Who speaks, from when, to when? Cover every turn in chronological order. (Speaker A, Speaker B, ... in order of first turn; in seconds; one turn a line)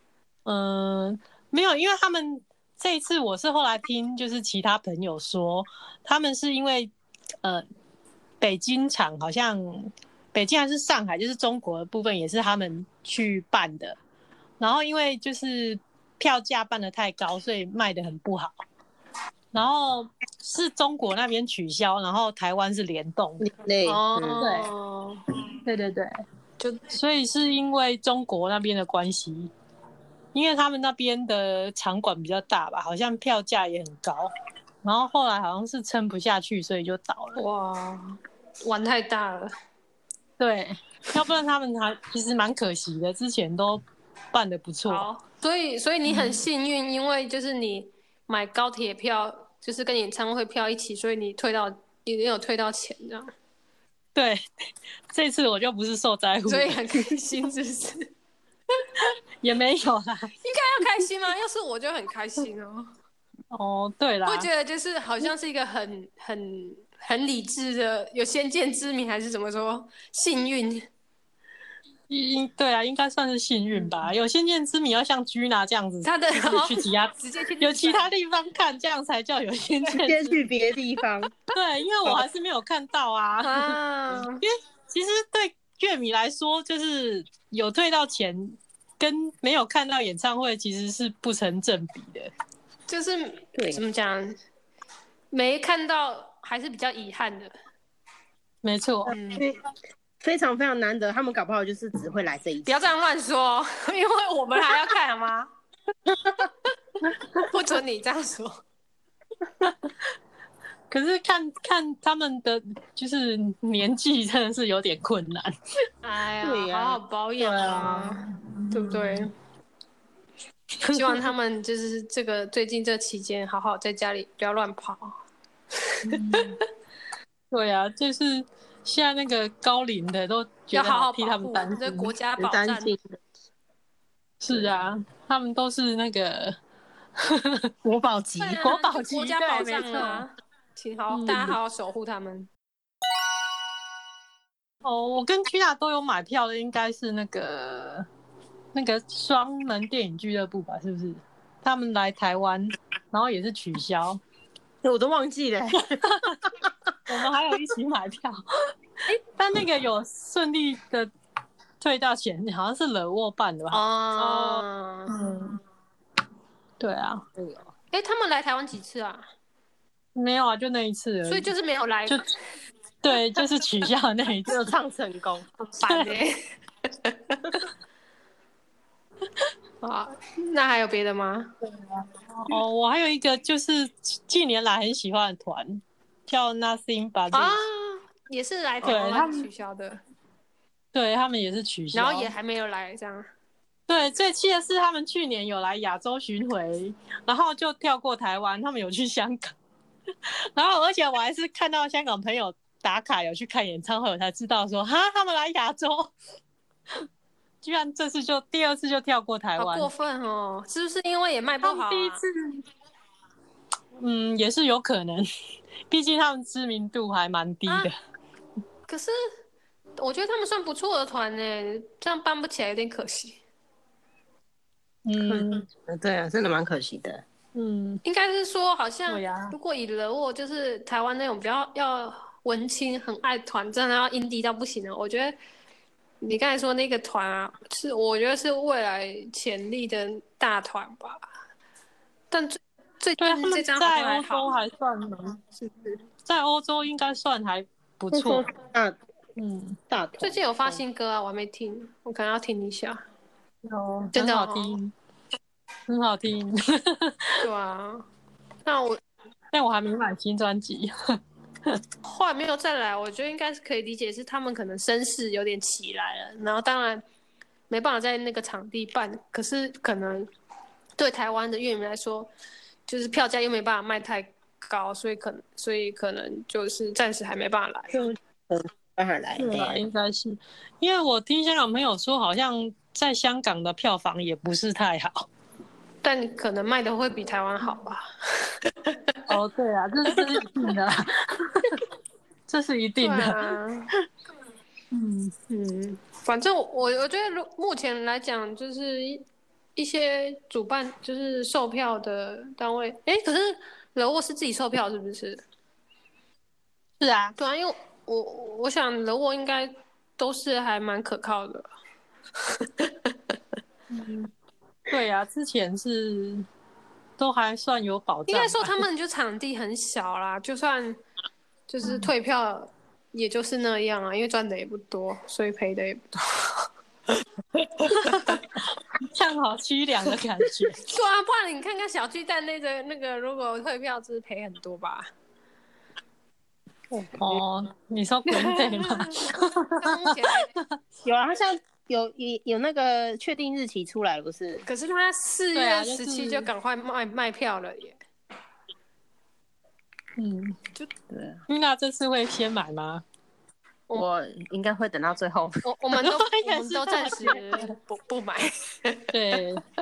Speaker A: 0.5-6.9
Speaker A: 8.4-14.0
Speaker A: 14.6-18.5
Speaker A: 19.5-23.5
Speaker B: 23.4-24.4
Speaker C: 23.9-25.2
Speaker A: 24.4-24.7
Speaker A: 25.6-26.1
Speaker C: 26.6-26.9
Speaker A: 26.9-29.5
Speaker A: 30.3-34.3
Speaker A: 34.8-37.4
Speaker C: 37.4-39.5
Speaker A: 40.4-43.8
Speaker A: 44.3-45.1
Speaker C: 44.9-53.3
Speaker A: 46.0-46.4
Speaker A: 54.1-54.4
Speaker A: 55.1-57.1
Speaker C: 56.5-58.1
Speaker A: 58.9-60.3
Speaker C: 60.4-62.9
Speaker A: 63.5-64.5
Speaker C: 64.2-70.9
Speaker A: 72.1-80.4
Speaker C: 76.0-78.1
Speaker B: 79.9-81.3
Speaker A: 81.5-83.8
Speaker C: 83.4-84.4
Speaker A: 84.4-92.3
Speaker C: 92.9-94.4
Speaker B: 93.5-93.8
Speaker C: 95.3-97.5
Speaker A: 98.6-99.1
Speaker C: 99.0-99.4
Speaker B: 100.2-102.9
Speaker C: 102.6-105.5
Speaker C: 107.4-108.6
Speaker A: 110.9-115.5
Speaker C: 116.0-119.3
Speaker B: 116.4-117.0
Speaker A: 117.4-119.3
Speaker A: 120.8-121.2
Speaker C: 120.9-125.2
Speaker C: 125.9-126.6
Speaker A: 126.0-126.6
Speaker A: 127.5-132.1
Speaker C: 130.7-132.9
Speaker B: 132.4-133.2
Speaker A: 134.4-136.6
Speaker A: 137.2-137.7
Speaker B: 137.8-138.7
Speaker C: 138.4-142.5
Speaker A: 138.6-140.3
Speaker A: 141.1-141.6
Speaker A: 144.8-148.1
Speaker A: 148.7-154.2
Speaker B: 154.8-156.1
Speaker A: 155.8-156.4
Speaker A: 157.1-158.7
Speaker A: 159.3-161.1
Speaker A: 161.8-165.6
Speaker C: 163.7-165.1
Speaker A: 166.8-167.2
Speaker C: 167.9-169.2
Speaker A: 170.1-171.5
Speaker C: 171.3-172.2
Speaker A: 173.0-174.7
Speaker B: 174.5-175.4
Speaker C: 175.6-176.4
Speaker A: 175.9-176.1
Speaker C: 177.0-177.6
Speaker C: 179.8-181.5
Speaker A: 181.7-187.6
Speaker C: 187.3-190.0
Speaker A: 188.8-189.5
Speaker A: 190.9-192.3
Speaker C: 191.9-193.3
Speaker A: 193.9-199.6
Speaker A: 200.3-206.1
Speaker A: 207.6-209.9
Speaker C: 209.6-212.2
Speaker A: 211.6-212.6
Speaker A: 214.0-215.3
Speaker A: 215.9-217.9
Speaker C: 218.9-219.2
Speaker C: 220.0-223.4
Speaker A: 225.1-225.7
Speaker B: 225.2-227.2
Speaker A: 227.6-228.0
Speaker C: 228.0-235.4
Speaker A: 229.1-229.5
Speaker C: 236.2-241.2
Speaker C: 242.3-244.5
Speaker A: 243.2-245.4
Speaker C: 245.6-246.0
Speaker A: 246.2-248.5
Speaker B: 248.1-248.9
Speaker A: 249.4-249.8
Speaker B: 249.9-250.8
Speaker C: 250.2-253.0
Speaker A: 253.6-254.9
Speaker C: 254.1-254.8
Speaker A: 255.9-257.4
Speaker C: 257.4-258.1
Speaker C: 258.6-259.0
Speaker A: 259.5-261.8
Speaker C: 262.1-267.0
Speaker C: 267.7-270.3
Speaker C: 271.0-272.3
Speaker C: 272.9-277.9
Speaker B: 278.5-279.8
Speaker A: 279.4-285.3
Speaker C: 286.0-288.6
Speaker A: 289.2-291.8
Speaker A: 292.5-293.6
Speaker C: 293.0-293.9
Speaker A: 294.9-295.3
Speaker C: 295.5-299.2
Speaker C: 299.8-305.4
Speaker A: 307.0-307.4
Speaker C: 307.4-311.7
Speaker C: 312.4-312.9
Speaker A: 313.9-314.3
Speaker A: 314.9-316.4
Speaker A: 317.2-318.7
Speaker C: 318.3-321.0
Speaker C: 321.7-326.7
Speaker A: 327.9-330.8
Speaker C: 328.0-328.4
Speaker C: 330.8-335.1
Speaker A: 336.9-340.6
Speaker C: 338.3-340.5
Speaker B: 341.0-344.6
Speaker C: 344.6-348.0
Speaker A: 345.5-346.5
Speaker A: 350.2-350.6
Speaker B: 351.1-351.4
Speaker A: 351.5-353.0
Speaker B: 353.9-355.5
Speaker C: 355.6-359.1
Speaker A: 356.0-357.7
Speaker A: 359.1-359.6